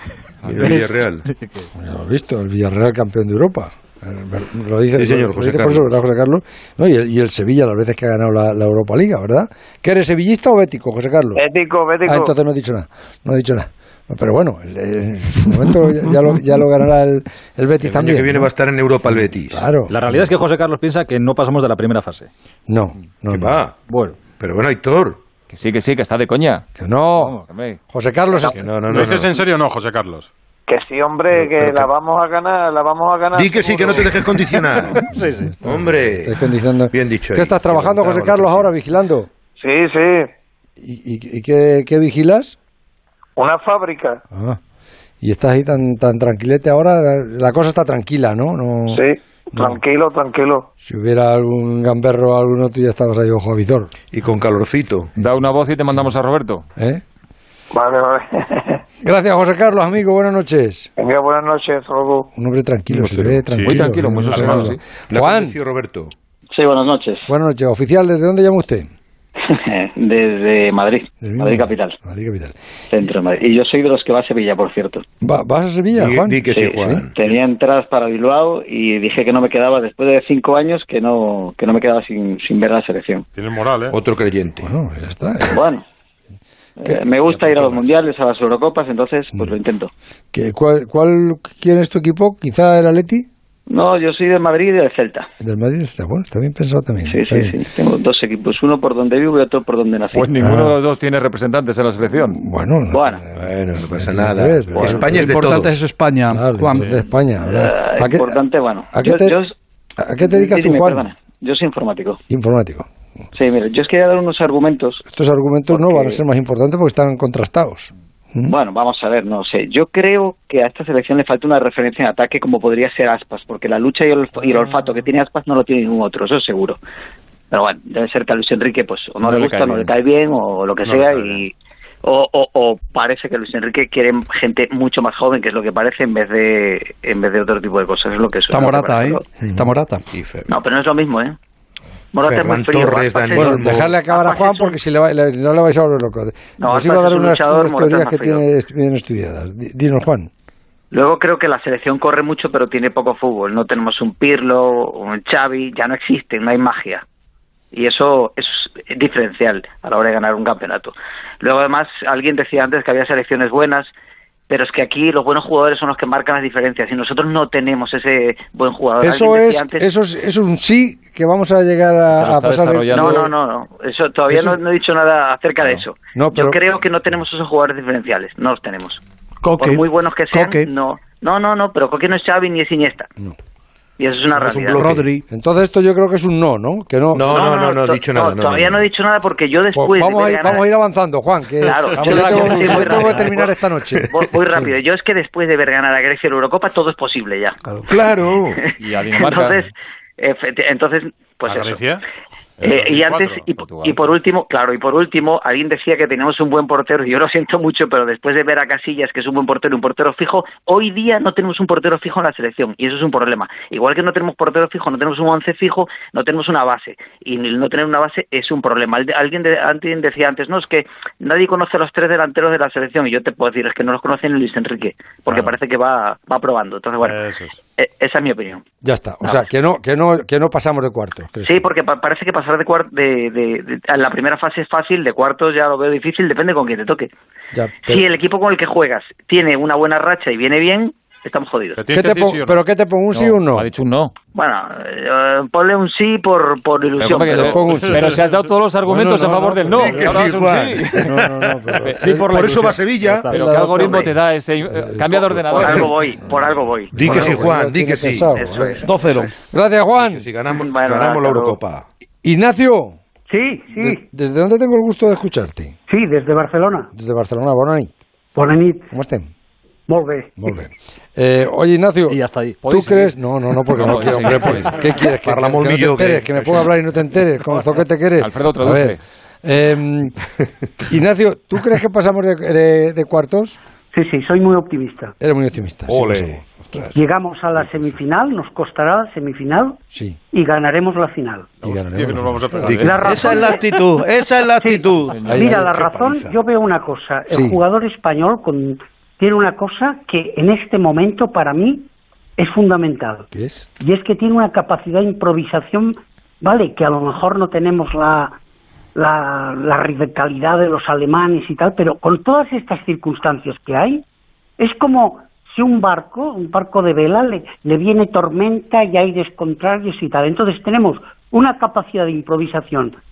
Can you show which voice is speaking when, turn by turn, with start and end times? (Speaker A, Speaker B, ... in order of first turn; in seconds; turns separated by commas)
Speaker A: 0.4-1.3, Speaker B: 1.8-11.4, Speaker A: 5.0-5.9, Speaker C: 11.3-12.3, Speaker B: 12.0-18.5, Speaker A: 17.8-19.6, Speaker B: 19.1-20.3, Speaker D: 19.9-22.3, Speaker B: 22.7-23.6, Speaker A: 23.3-23.7, Speaker D: 23.9-24.2, Speaker A: 24.4-25.2, Speaker E: 25.5-26.6, Speaker B: 26.7-28.7, Speaker E: 27.3-27.8, Speaker C: 28.3-28.6, Speaker A: 28.5-29.4, Speaker F: 28.9-30.3, Speaker C: 30.7-34.8, Speaker A: 31.3-31.9, Speaker A: 33.3-35.0, Speaker D: 34.9-35.5, Speaker B: 35.0-39.3, Speaker A: 35.6-38.7, Speaker C: 39.6-40.3, Speaker B: 40.8-42.5, Speaker C: 43.4-44.2, Speaker B: 44.3-44.6, Speaker B: 45.2-49.0, Speaker C: 48.9-50.7, Speaker B: 50.8-53.9, Speaker A: 54.1-55.1, Speaker E: 55.2-56.6, Speaker B: 56.8-57.0, Speaker C: 57.7-58.8, Speaker B: 59.0-60.9, Speaker C: 61.0-62.3, Speaker B: 62.3-65.6, Speaker A: 62.9-63.4, Speaker F: 63.5-64.7, Speaker E: 63.7-64.8, Speaker A: 65.1-66.1, Speaker G: 66.5-67.3, Speaker B: 67.3-68.9, Speaker G: 69.4-72.0, Speaker B: 71.2-72.6, Speaker G: 72.9-75.0, Speaker B: 75.2-77.0, Speaker A: 75.9-77.2, Speaker G: 76.5-83.2, Speaker F: 83.3-84.0, Speaker A: 83.9-84.7, Speaker B: 84.6-85.6, Speaker G: 85.5-85.8, Speaker G: 86.8-89.9, Speaker A: 87.2-87.9, Speaker B: 90.3-93.3, Speaker G: 93.7-95.3, Speaker B: 95.4-97.5, Speaker G: 97.0-100.4, Speaker E: 100.1-102.4, Speaker B: 100.4-100.8, Speaker B: 102.2-105.4, Speaker G: 102.9-103.2, Speaker A: 103.4-105.8, Speaker G: 104.7-105.1, Speaker H: 105.1-107.0, Speaker B: 106.3-108.3, Speaker G: 107.3-109.5, Speaker B: 108.9-109.3, Speaker B: 110.0-111.0, Speaker G: 110.2-112.2, Speaker B: 112.3-112.9, Speaker G: 113.3-115.0, Speaker B: 115.1-118.5, Speaker G: 115.7-116.2, Speaker G: 118.5-126.8, Speaker G: 127.5-139.2, Speaker E: 129.2-129.9, Speaker F: 130.8-131.1, Speaker H: 138.5-140.0, Speaker B: 139.4-139.7, Speaker A: 140.1-140.5, Speaker G: 140.5-141.4, Speaker G: 142.1-144.8, Speaker A: 142.2-143.9, Speaker B: 143.4-150.3, Speaker G: 146.6-148.5, Speaker G: 150.9-157.0, Speaker G: 157.7-163.9, Speaker G: 164.5-169.9, Speaker B: 169.0-173.3, Speaker E: 172.2-173.2, Speaker G: 172.9-179.0, Speaker B: 176.1-176.6, Speaker H: 179.4-180.7, Speaker G: 179.6-183.1, Speaker G: 184.0-185.0, Speaker A: 184.3-185.0, Speaker H: 184.7-185.2, Speaker B: 185.3-187.2, Speaker A: 187.1-188.9, Speaker G: 187.2-190.7, Speaker B: 189.8-194.0, Speaker G: 191.6-197.6, Speaker E: 192.0-193.2, Speaker A: 197.9-198.6, Speaker G: 198.4-201.9, Speaker E: 198.8-199.6, Speaker F: 201.5-202.0, Speaker F: 202.6-203.5, Speaker G: 202.6-227.2, Speaker E: 203.6-204.0, Speaker F: 225.3-225.5, Speaker F: 227.0-227.6, Speaker G: 227.8-228.6, Speaker B: 228.8-231.6, Speaker G: 231.4-237.1, Speaker B: 237.5-238.0, Speaker G: 237.8-241.8, Speaker F: 241.8-242.6, Speaker B: 241.9-243.7, Speaker E: 243.1-244.1, Speaker G: 244.3-247.9, Speaker E: 247.0-250.8, Speaker B: 247.4-248.0, Speaker B: 248.8-252.8, Speaker A: 249.8-253.4, Speaker D: 249.9-250.2, Speaker H: 250.0-251.0, Speaker E: 251.9-252.1, Speaker D: 252.1-253.9, Speaker E: 253.3-255.8, Speaker B: 254.7-256.3, Speaker G: 255.2-257.5, Speaker B: 256.9-258.8, Speaker A: 257.0-258.3, Speaker G: 258.3-258.9, Speaker H: 258.8-259.3, Speaker B: 259.4-260.3, Speaker A: 260.0-261.9, Speaker G: 260.6-261.6, Speaker B: 262.2-263.0, Speaker I: 263.3-264.0, Speaker B: 263.8-265.7, Speaker I: 265.9-266.9, Speaker B: 266.9-267.9, Speaker I: 268.3-268.9, Speaker B: 268.9-269.3, Speaker I: 269.9-270.5, Speaker B: 270.4-280.2, Speaker D: 272.1-272.6, Speaker E: 272.6-273.2, Speaker E: 273.7-274.9, Speaker A: 274.3-274.7, Speaker A: 275.2-276.8, Speaker E: 278.2-279.0, Speaker B: 280.8-283.6, Speaker I: 283.9-285.1, Speaker B: 285.2-287.0, Speaker A: 285.9-286.4, Speaker I: 286.9-289.8, Speaker B: 287.6-288.0, Speaker B: 289.9-290.2, Speaker I: 290.3-291.5, Speaker B: 291.6-292.8, Speaker F: 291.6-293.5, Speaker A: 292.6-293.1, Speaker I: 292.8-293.7, Speaker H: 293.0-295.2, Speaker I: 294.6-303.3, Speaker E: 295.1-295.4, Speaker B: 295.3-295.6, Speaker A: 295.3-296.4, Speaker B: 297.3-297.6, Speaker B: 303.3-303.7, Speaker I: 303.8-308.3, Speaker I: 308.9-314.0, Speaker I: 314.6-322.9